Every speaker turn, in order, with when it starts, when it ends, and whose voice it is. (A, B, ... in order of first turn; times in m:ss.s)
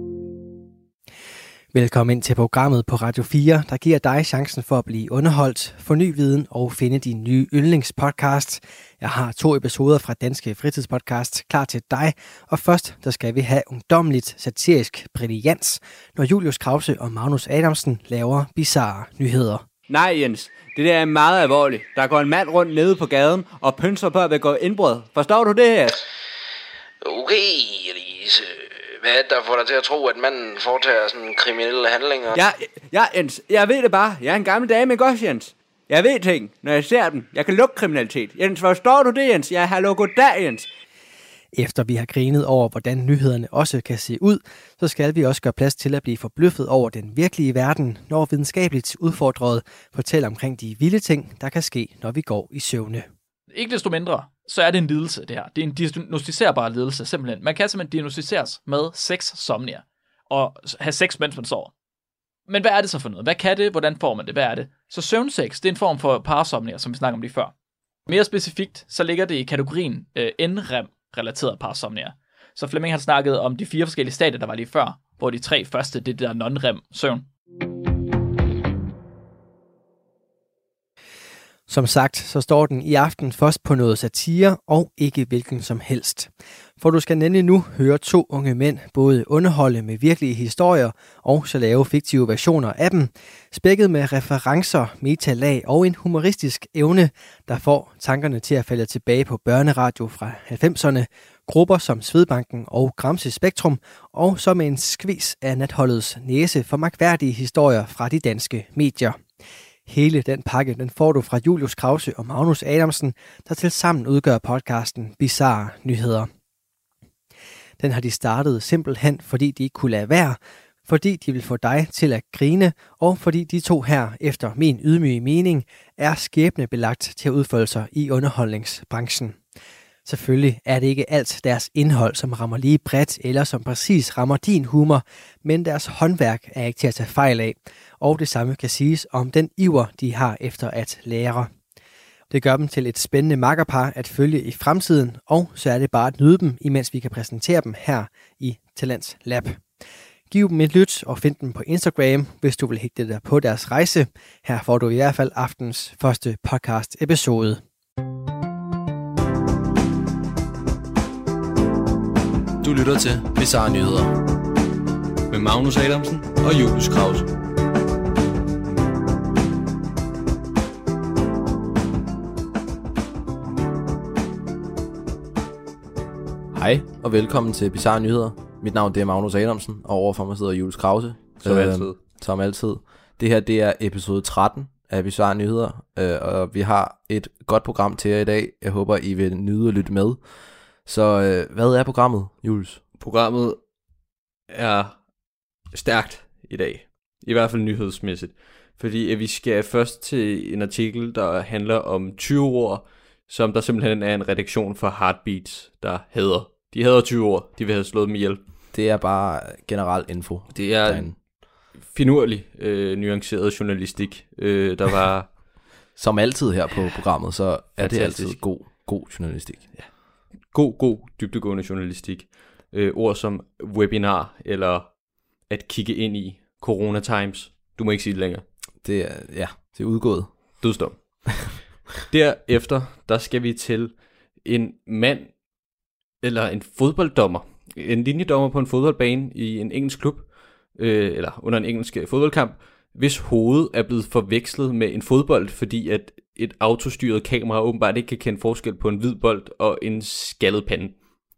0:01.7-0:19.6 A
0:19.9-0:26.0 B
0:27.0-0:32.4 C
0:32.4-0:40.7 B
0:41.5-0:53.1 A
0:53.5-1:01.7 D
1:02.5-1:07.6 D
1:08.1-1:17.3 D
1:21.7-1:49.2 A
1:49.9-1:56.3 A
1:57.8-2:09.4 A
2:10.0-2:21.5 A
2:22.3-2:29.7 A
2:30.3-2:37.6 A
2:42.6-2:44.1 E
2:45.3-2:46.4 B
2:56.5-3:12.8 E
3:01.4-3:02.0 B
3:13.0-3:13.7 B
3:14.5-3:28.4 B
3:28.7-3:31.2 E
3:30.5-3:35.4 B
3:36.0-3:39.8 E
3:37.8-3:38.4 B
3:40.5-3:48.5 B
3:48.8-3:50.7 E
3:50.6-3:55.6 B
3:56.2-4:11.0 B